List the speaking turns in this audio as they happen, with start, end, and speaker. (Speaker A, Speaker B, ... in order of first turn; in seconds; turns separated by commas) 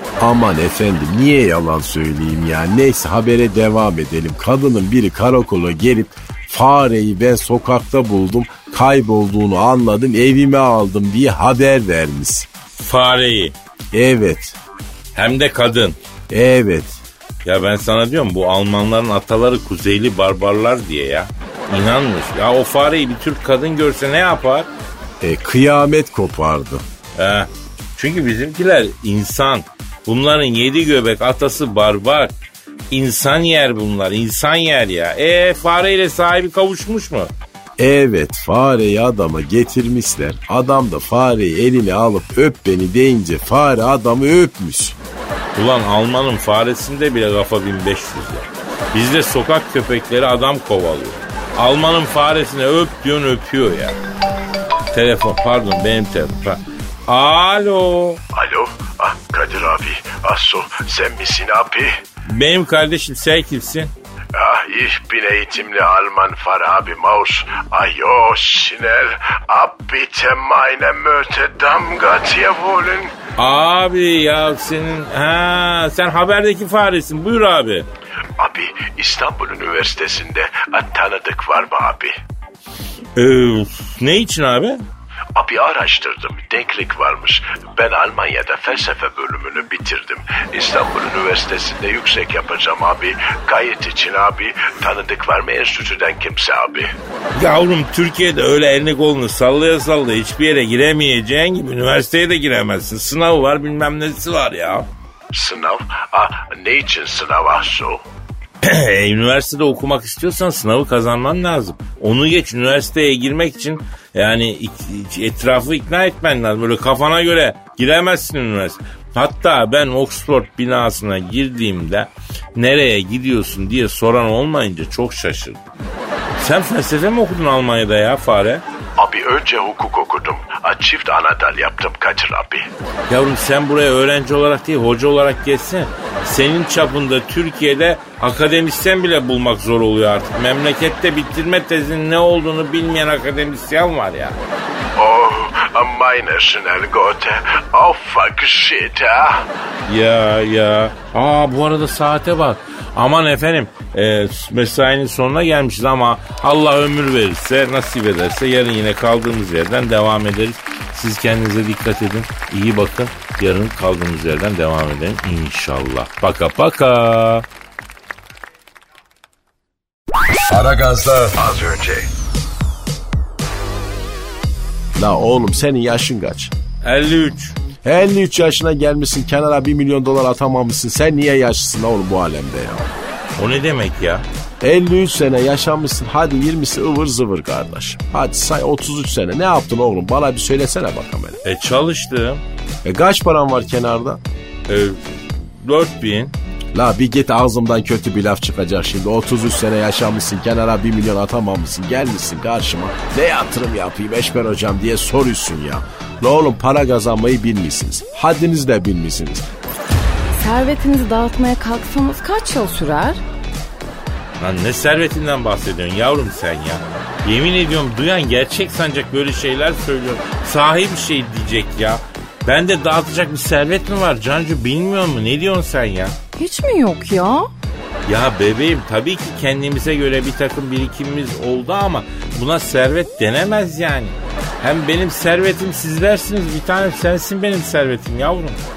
Speaker A: 0.2-12.5, Speaker B: 12.8-13.5, Speaker A: 13.9-14.6, Speaker B: 15.1-16.0, Speaker A: 16.3-16.9, Speaker B: 17.4-24.7, Speaker A: 25.2-26.8, Speaker B: 27.2-32.3, Speaker B: 32.9-37.3, Speaker A: 37.8-45.0, Speaker B: 45.6-54.0, Speaker B: 54.9-58.2, Speaker C: 58.3-62.0, Speaker B: 62.3-63.9, Speaker C: 64.3-73.1, Speaker B: 73.4-77.9, Speaker C: 78.4-82.2, Speaker B: 83.2-84.8, Speaker C: 85.3-96.9, Speaker B: 97.4-104.9, Speaker C: 105.3-108.0, Speaker B: 108.6-125.6, Speaker B: 126.4-128.6, Speaker C: 129.0-132.7, Speaker B: 133.1-144.4, Speaker C: 145.0-149.5, Speaker B: 149.9-167.4, Speaker A: 170.5-171.8, Speaker A: 175.0-176.5, Speaker B: 176.8-177.6, Speaker A: 177.8-182.9, Speaker B: 183.4-184.2, Speaker A: 184.6-191.4, Speaker B: 191.4-192.4, Speaker A: 192.8-194.2, Speaker B: 194.7-196.3, Speaker A: 196.7-209.4, Speaker D: 210.3-213.2, Speaker B: 214.4-226.2, Speaker D: 226.4-227.5, Speaker B: 228.1-238.6